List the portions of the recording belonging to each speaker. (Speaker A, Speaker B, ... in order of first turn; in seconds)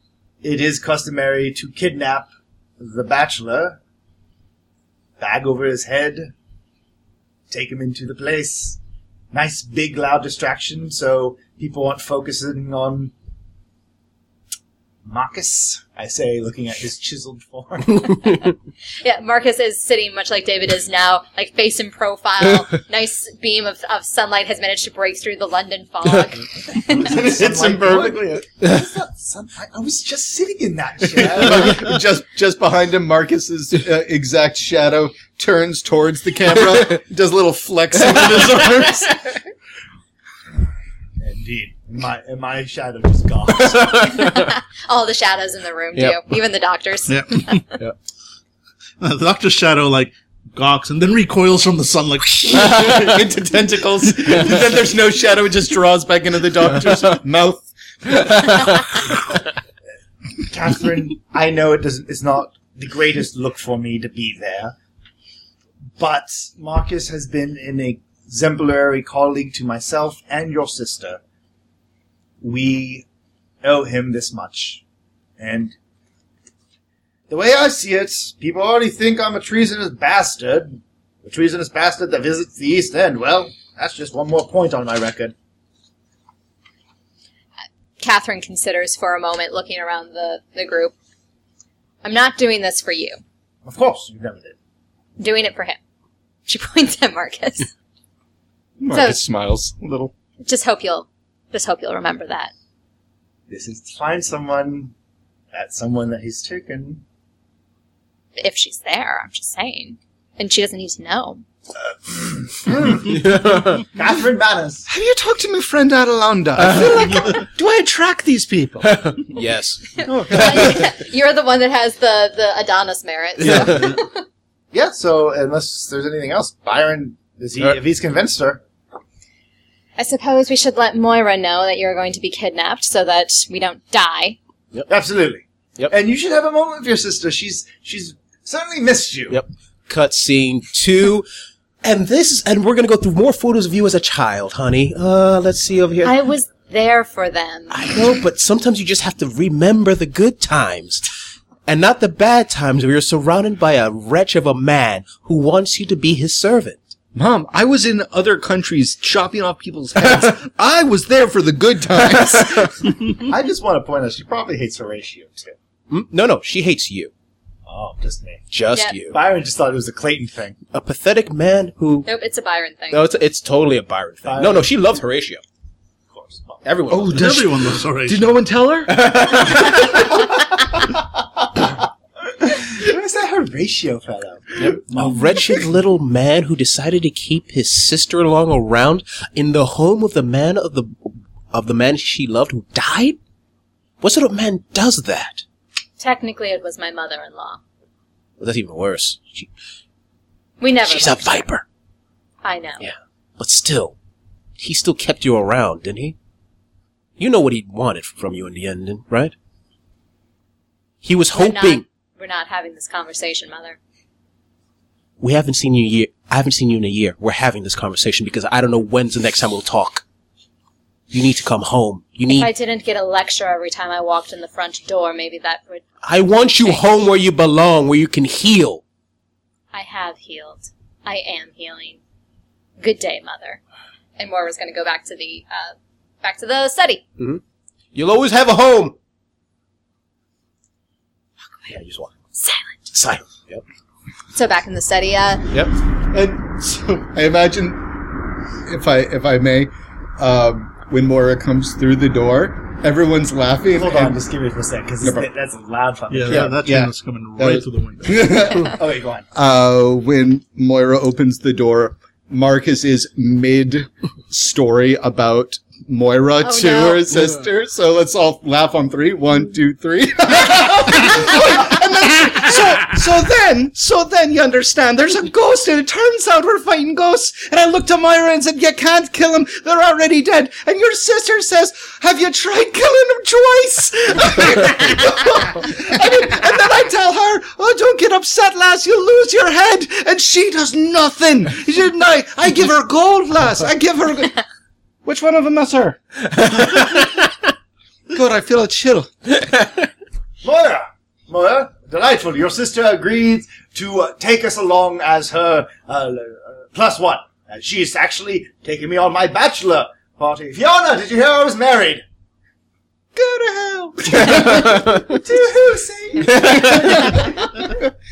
Speaker A: 0.4-3.8, 5.2-6.3, 7.5-8.8, 9.3-13.1, 15.1-18.3, 26.9-31.8, 41.2-44.2, 60.5-64.7, 66.0-71.2, 72.4-73.0, 73.6-74.8, 75.4-75.7, 77.3-85.3, 93.6-94.5, 103.5-104.9, 105.5-107.0, 112.1-113.3, 113.9-114.9, 124.7-128.6, 134.9-139.4, 163.3-165.5, 167.7-168.4, 169.1-170.6, 174.2-174.7, 176.1-176.6, 180.9-185.6, 253.7-256.7, 258.5-259.2, 300.4-312.0, 314.1-317.2
Speaker B: 19.0-27.1, 43.9-47.6, 88.0-90.9, 92.0-93.2, 95.2-95.8, 96.5-97.7, 98.9-99.2, 100.4-102.5, 108.4-111.4, 120.0-124.2, 130.0-134.4, 146.0-148.0, 172.1-173.1, 196.0-197.6, 200.6-201.5, 202.4-202.9, 211.3-213.8, 222.3-225.8, 229.7-232.0, 232.8-233.6, 234.2-237.0, 242.4-242.7, 244.3-245.5, 266.4-267.1, 316.6-317.3
Speaker C: 26.9-28.4, 31.2-39.3, 52.5-59.2, 98.8-100.1, 114.9-119.1, 120.0-120.9, 157.1-163.0, 176.9-179.6, 246.1-254.2, 255.0-255.3, 256.3-258.8, 259.3-294.4, 295.0-297.2, 298.1-299.4, 313.1-314.7
Speaker D: 43.9-44.2, 113.1-113.8, 118.8-119.9, 123.5-123.9, 139.3-141.2, 141.8-146.1, 147.7-151.1, 151.7-156.8, 165.9-167.1, 168.5-169.2, 170.7-172.1, 172.9-175.4, 176.6-177.3, 178.9-179.9, 184.6-193.2, 194.0-195.4, 198.4-199.5, 200.8-201.6, 202.8-203.9, 204.6-206.2, 207.2-209.3, 211.0-211.8, 215.2-220.0, 221.1-222.5, 226.0-228.8, 237.9-238.9, 241.7-242.1, 242.9-243.6, 316.4-317.0
Speaker E: 47.1-47.6, 49.0-52.9, 177.1-178.3, 256.1-258.3